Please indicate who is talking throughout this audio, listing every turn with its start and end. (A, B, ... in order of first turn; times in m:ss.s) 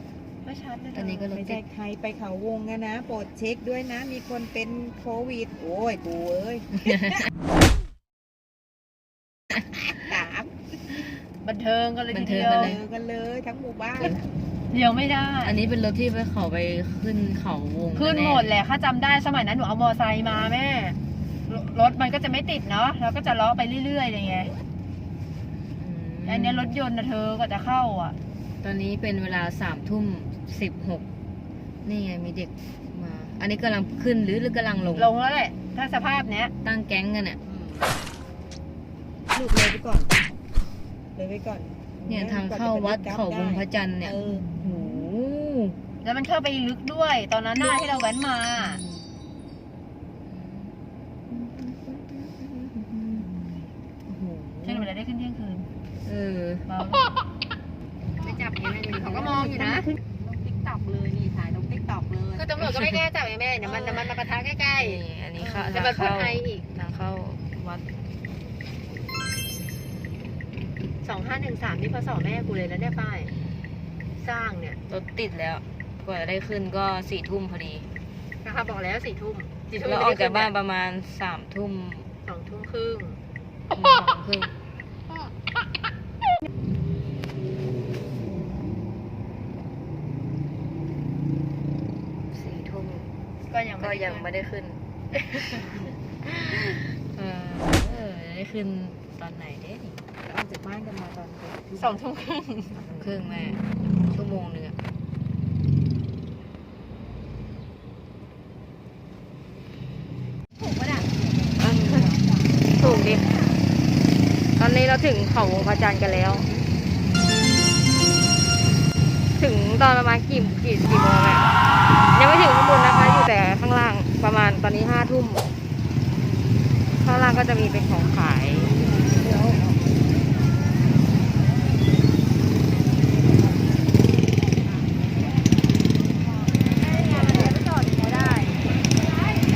0:00.4-0:01.5 A
0:00.9-0:01.6 B
0:01.4-0:06.7 C
0:06.8-0:07.2 B
0:09.8-0:10.5 C
0:11.4-0:12.8 A
0:12.1-0:12.8 B
0:12.5-0:14.2 C
0:14.7-0:15.6 A
0:15.4-0:18.5 B
0:17.9-0:21.0 A
0:21.5-0:24.5 A
0:25.8-0:26.7 B
0:26.2-0:28.2 A
0:28.6-0:31.0 B
0:31.8-0:35.1 B
0:35.0-0:36.5 A
0:36.6-0:37.4 B
0:37.4-0:37.9 C
0:39.3-0:40.1 C
0:41.2-0:44.5 C
0:42.1-0:45.8 B
0:46.0-0:48.8 A
0:48.6-0:49.1 B
0:50.3-0:50.8 B
0:51.3-0:53.3 B
0:54.1-0:54.9 B
0:54.6-0:55.7 A
0:56.1-0:56.7 B
0:56.7-0:57.1 A
0:58.2-1:02.5 C
0:58.8-0:59.9 A
1:02.3-1:06.6 A
1:02.6-1:03.0 B
1:04.8-1:07.8 B
1:11.0-1:13.3 A
1:14.2-1:14.8 A
1:14.9-1:17.9 B
1:18.4-1:20.5 A
1:19.7-1:22.1 B
1:22.2-1:23.2 A
1:23.7-1:24.5 B
1:32.3-1:33.1 B
1:33.5-1:34.3 A
1:33.8-1:35.7 B
1:36.3-1:40.0 B
1:40.2-1:42.0 C
1:41.8-1:42.7 A
1:42.8-1:43.1 C
1:43.0-1:44.8 B
1:50.6-1:52.4 C
1:51.6-1:52.1 B
1:51.8-1:52.1 A
1:52.7-1:53.3 B
1:52.9-1:53.3 A
1:54.6-1:56.5 B
1:59.4-2:01.5 B
2:02.1-2:05.4 B
2:07.0-2:08.8 B
2:16.8-2:18.6 A